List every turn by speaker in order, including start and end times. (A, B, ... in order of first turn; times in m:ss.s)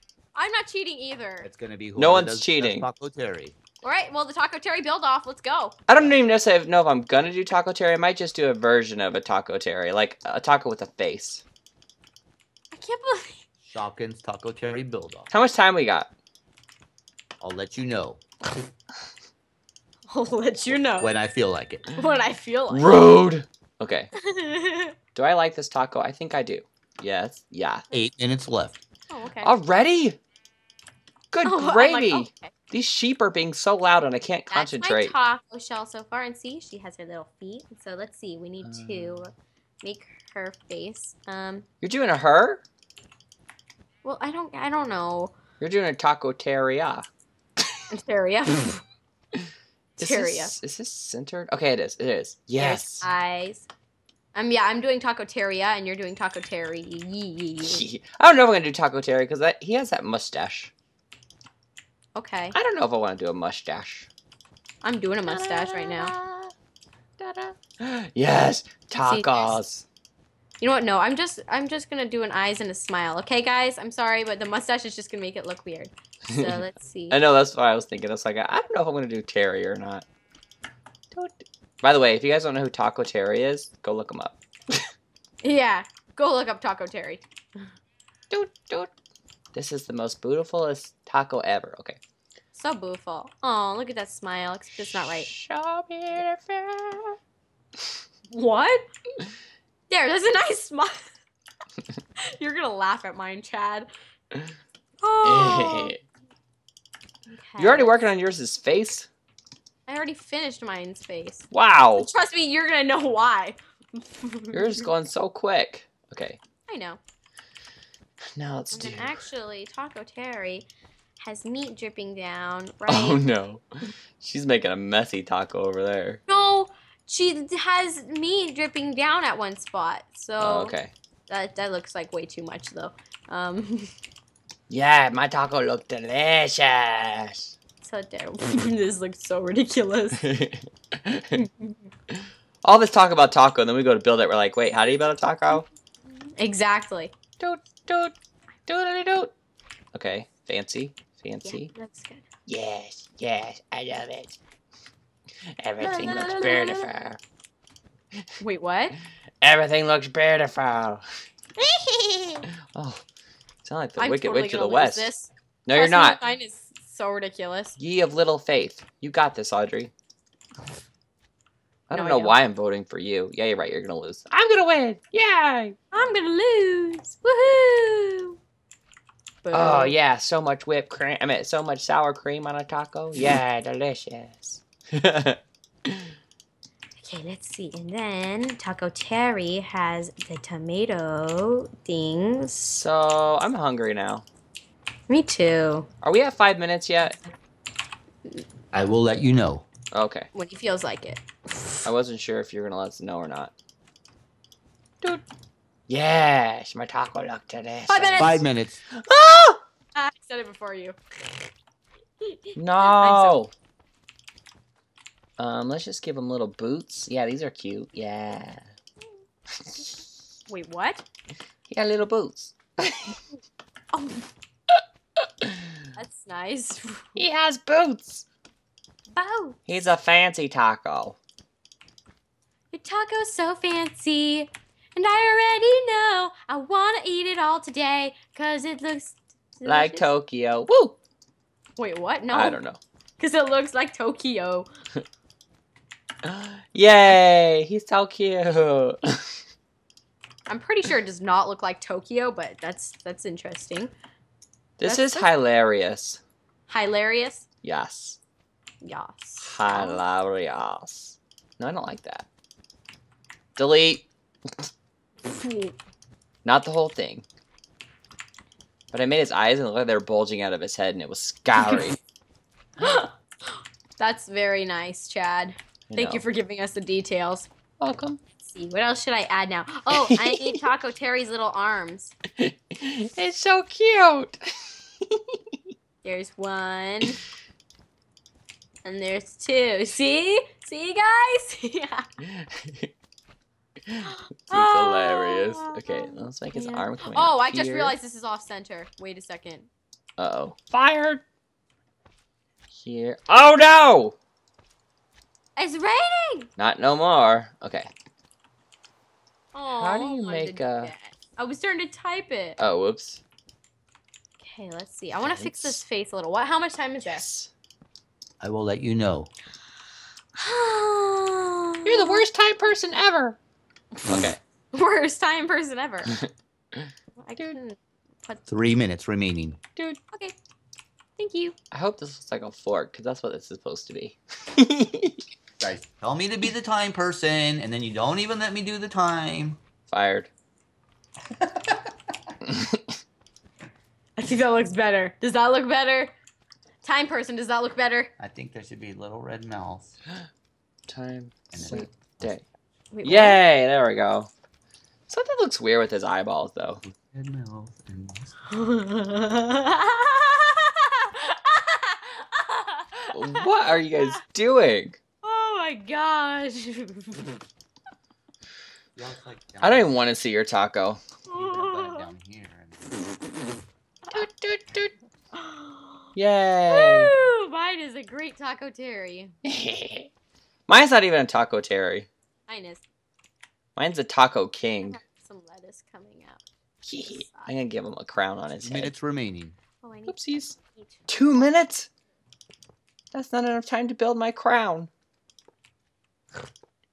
0:00.4-0:01.5 A
0:01.4-0:03.6 B
0:02.0-0:02.9 C
0:03.8-0:05.8 A
0:05.9-0:11.4 C
0:12.7-0:13.4 A
0:13.6-0:15.3 B
0:15.3-0:16.1 C
0:17.4-0:18.2 B
0:20.1-0:21.1 A
0:21.0-0:21.9 B
0:21.9-0:22.9 A
0:22.7-0:24.1 C
0:24.2-0:25.0 A
0:25.2-0:27.8 C
0:27.9-0:28.8 B
0:29.1-0:29.5 A
0:29.4-0:30.2 C
0:31.3-0:35.1 C
0:31.4-0:32.5 A
0:34.5-0:41.7 A
0:38.6-0:39.3 C
0:41.8-0:42.6 C
0:44.0-0:45.3 A
0:45.6-0:47.1 C
0:47.9-0:48.8 A
0:50.0-0:53.1 C
0:50.0-0:50.5 A
0:52.6-0:53.7 A
0:54.4-0:57.8 A
0:57.6-1:00.7 C
1:02.2-1:02.6 A
1:02.5-1:04.1 C
1:04.8-1:06.1 A
1:05.3-1:06.5 C
1:07.2-1:09.8 C
1:08.9-1:09.6 A
1:10.6-1:17.2 A
1:16.3-1:16.6 C
1:17.1-1:20.0 C
1:21.1-1:24.4 C
1:25.4-1:27.6 A
1:28.3-1:28.9 C
1:29.5-1:32.0 C
1:32.5-1:35.3 A
1:35.0-1:37.2 C
1:38.3-1:38.8 A
1:39.9-1:41.1 A
1:42.4-1:43.9 A
1:45.0-1:46.0 A
1:45.2-1:46.0 C
1:47.3-1:48.1 A
1:47.6-1:49.1 C
1:49.9-1:54.9 A
1:51.5-1:52.1 C
1:54.5-1:56.4 C
1:56.7-1:57.0 A
1:58.4-1:59.2 C
1:58.7-2:00.7 A
2:01.2-2:03.2 A
2:02.9-2:03.6 C
2:04.2-2:06.2 C
2:06.3-2:10.8 A
2:10.4-2:10.9 C
2:11.3-2:13.9 A
2:14.7-2:17.5 C
2:17.8-2:20.2 A
2:20.2-2:21.4 C
2:21.4-2:21.8 A
2:22.1-2:25.7 C
2:26.4-2:27.1 A
2:27.4-2:28.1 C
2:28.7-2:29.3 C
2:29.9-2:31.7 C
2:31.4-2:32.3 A
2:32.5-2:34.4 C
2:35.6-2:37.2 C
2:35.8-2:36.9 A
2:38.4-2:39.0 A
2:39.4-2:41.0 C
2:41.6-2:42.5 A
2:42.7-2:43.0 C
2:43.6-2:45.1 C
2:44.0-2:47.8 A
2:45.7-2:46.2 C
2:47.8-2:49.9 C
2:51.9-2:55.8 C
2:51.9-2:52.4 A
2:55.9-2:58.4 A
2:59.4-3:00.0 A
2:59.5-3:06.1 C
3:07.0-3:12.8 A
3:12.6-3:14.2 C
3:15.1-3:15.9 A
3:16.0-3:17.2 C
3:18.7-3:19.7 B
3:19.9-3:20.3 C
3:20.3-3:21.9 A
3:21.8-3:23.5 C
3:25.9-3:28.4 C
3:27.9-3:28.4 A
3:28.2-3:28.8 B
3:29.0-3:29.6 C
3:30.0-3:31.0 A
3:32.2-3:33.4 A
3:32.6-3:33.5 C
3:35.4-3:38.6 C
3:40.5-3:41.0 A
3:41.7-3:43.2 C
3:43.9-3:44.3 A
3:44.7-3:45.6 C
3:46.0-3:47.2 A
3:47.2-3:48.3 C
3:49.1-3:49.6 A
3:49.7-3:51.2 C
3:52.7-4:00.1 A
3:59.7-4:01.0 C
4:01.8-4:02.6 A
4:02.3-4:02.8 C
4:03.2-4:04.7 A
4:06.2-4:09.3 C
4:10.5-4:13.9 A
4:14.8-4:16.2 C
4:14.8-4:15.3 A
4:16.7-4:17.5 A
4:17.6-4:18.2 C
4:18.8-4:20.0 A
4:19.4-4:22.3 C
4:23.6-4:24.1 C
4:25.2-4:25.8 A
4:26.4-4:27.2 C
4:28.9-4:32.0 C
4:31.6-4:31.9 A
4:32.8-4:37.5 A
4:35.9-4:36.2 C
4:37.8-4:38.2 C
4:38.4-4:42.2 A
4:39.9-4:40.6 C
4:42.4-4:44.4 C
4:45.1-4:45.6 C
4:46.0-4:47.2 A
4:48.8-4:52.1 A
4:52.2-4:52.9 C
4:53.9-4:58.0 C
4:54.0-4:59.7 A
5:00.2-5:01.2 C
5:02.8-5:04.2 C
5:05.6-5:06.5 A
5:06.6-5:07.9 C
5:09.5-5:12.6 A
5:09.8-5:10.9 C
5:12.6-5:13.2 C
5:14.4-5:17.3 A
5:15.2-5:15.8 C
5:17.0-5:17.5 C
5:18.4-5:19.3 B
5:20.4-5:22.2 A
5:21.9-5:23.4 C
5:24.1-5:24.4 C
5:24.7-5:26.2 A
5:27.2-5:28.4 A
5:28.5-5:29.6 B
5:31.2-5:31.6 A
5:31.7-5:35.2 C
5:35.6-5:39.6 B
5:39.9-5:40.3 C
5:42.5-5:42.8 C
5:44.2-5:46.1 A
5:46.8-5:48.1 A
5:48.2-5:49.9 B
5:50.9-5:52.4 C
5:51.5-5:52.4 B
5:52.9-5:53.4 A
5:53.0-5:54.3 C
5:55.1-5:56.8 C
5:56.8-5:58.4 B
5:58.5-6:04.2 A
6:03.1-6:05.0 C
6:05.2-6:07.4 A
6:09.0-6:09.9 B
6:09.6-6:11.0 C
6:11.3-6:12.0 A
6:11.3-6:13.1 B
6:14.1-6:14.9 C
6:15.4-6:16.1 A
6:16.2-6:17.1 C
6:16.7-6:19.4 A
6:19.4-6:20.1 C
6:20.7-6:22.1 C
6:22.5-6:22.8 A
6:23.8-6:25.0 C
6:24.8-6:26.4 A
6:26.8-6:28.9 C
6:27.0-6:27.6 A
6:28.6-6:29.6 B
6:29.8-6:31.2 A
6:30.1-6:30.6 C
6:31.1-6:31.9 C
6:33.1-6:34.9 C